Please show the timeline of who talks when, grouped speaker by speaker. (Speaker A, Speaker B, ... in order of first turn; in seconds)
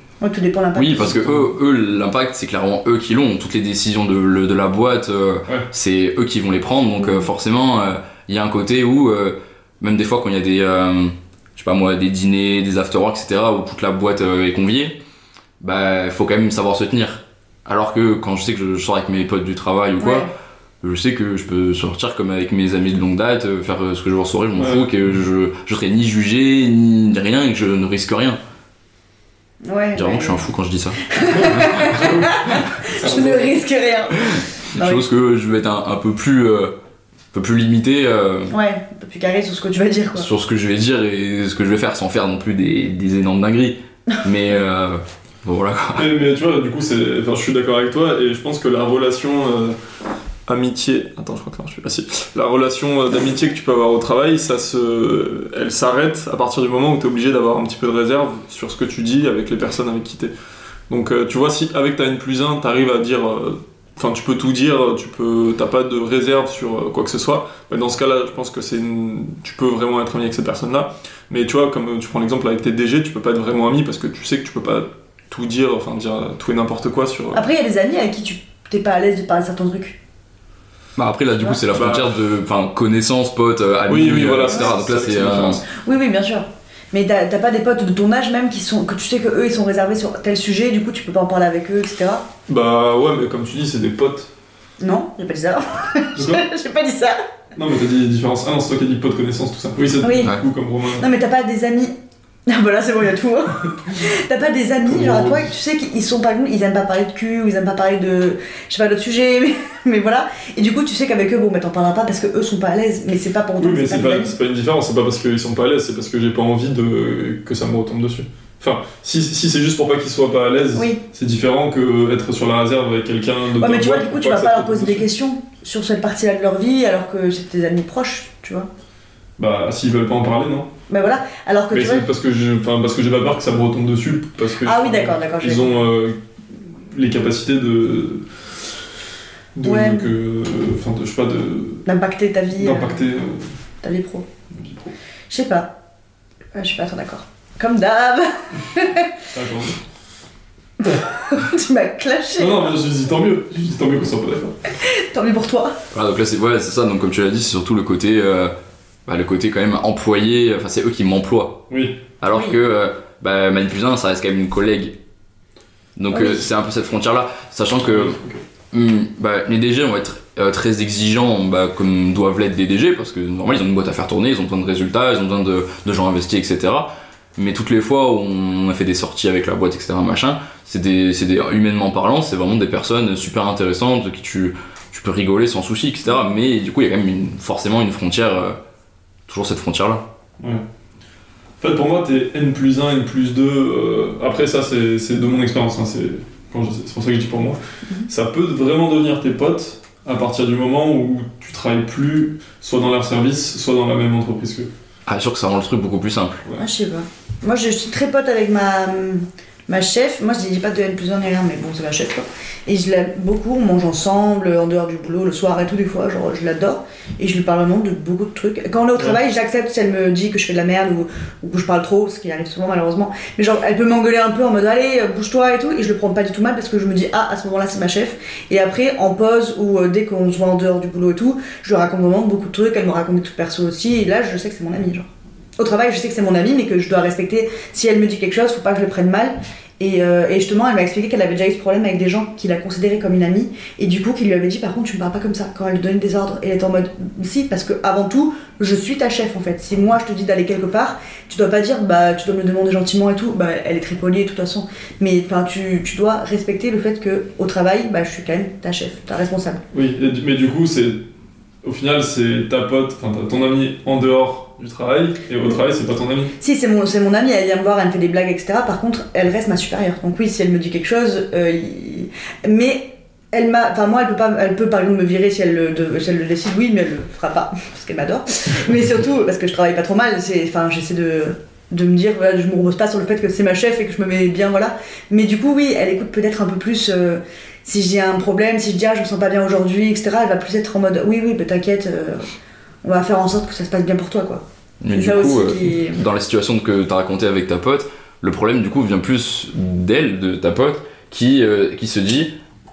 Speaker A: 0.2-1.3, 7.0-7.3, 20.0-20.3, 29.6-30.4, 31.1-35.0, 38.5-40.3, 77.3-80.0, 85.7-92.2, 94.8-97.2, 100.0-100.3, 101.0-101.9, 102.5-114.3, 120.7-121.0, 123.6-128.7, 130.9-132.1, 134.6-135.8, 139.6-140.1, 141.8-143.0, 143.8-144.2, 145.3-145.7, 146.5-149.2, 150.8-152.8, 154.8-155.8, 162.3-162.6, 166.1-166.4, 206.6-259.6, 266.4-292.3, 292.8-296.0
Speaker B: 0.7-15.0, 15.6-20.3, 20.8-28.4, 29.9-31.7, 34.3-36.7, 37.3-38.5, 40.1-46.1, 81.0-85.6, 155.9-158.5, 159.1-161.6, 162.2-165.0, 165.9-168.2, 168.7-188.6, 189.3-190.1, 205.1-206.4, 294.8-302.3
Speaker C: 24.6-24.9, 31.3-33.5, 46.0-49.8, 50.5-60.3, 60.9-77.4, 81.7-82.1, 83.9-85.6, 92.5-94.3, 96.2-96.4, 97.5-101.1, 104.8-105.5, 113.6-125.1, 129.4-130.7, 131.7-136.2, 136.8-138.2, 139.5-141.8, 142.6-143.5, 144.5-144.9, 149.3-149.8, 152.4-154.6, 161.7-162.0, 167.8-168.4, 191.6-204.7, 259.7-261.0, 261.6-266.3